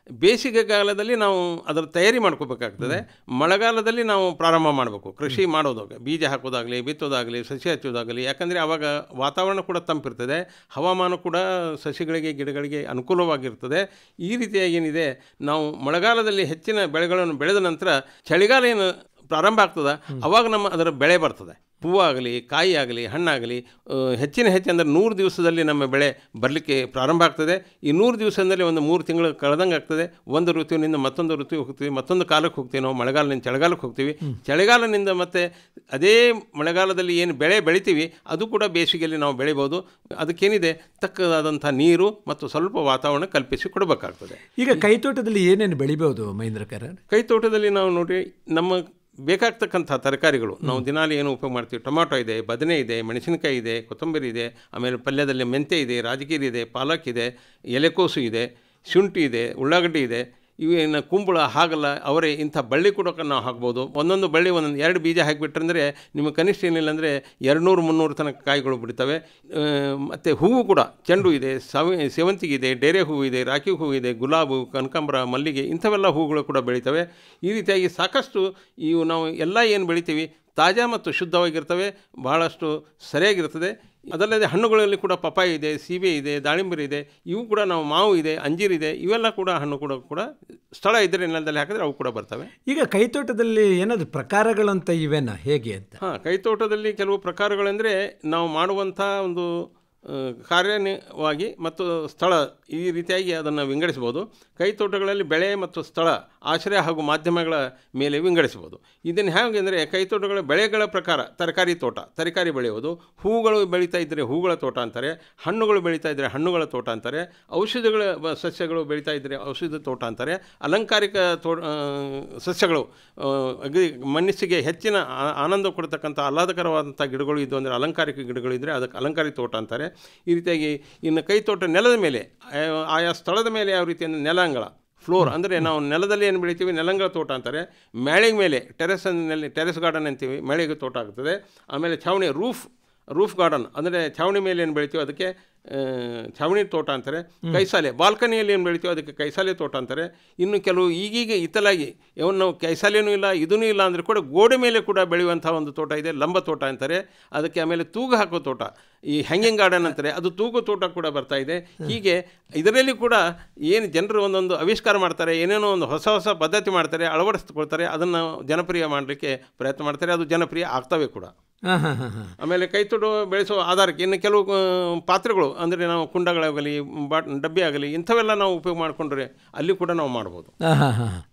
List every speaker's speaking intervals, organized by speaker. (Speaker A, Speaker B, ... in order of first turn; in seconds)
Speaker A: 0.2-44.4, 47.1-92.5, 96.0-171.3, 172.4-180.5
Speaker B: 44.6-47.0, 92.7-96.0, 171.7-172.3, 180.6-181.2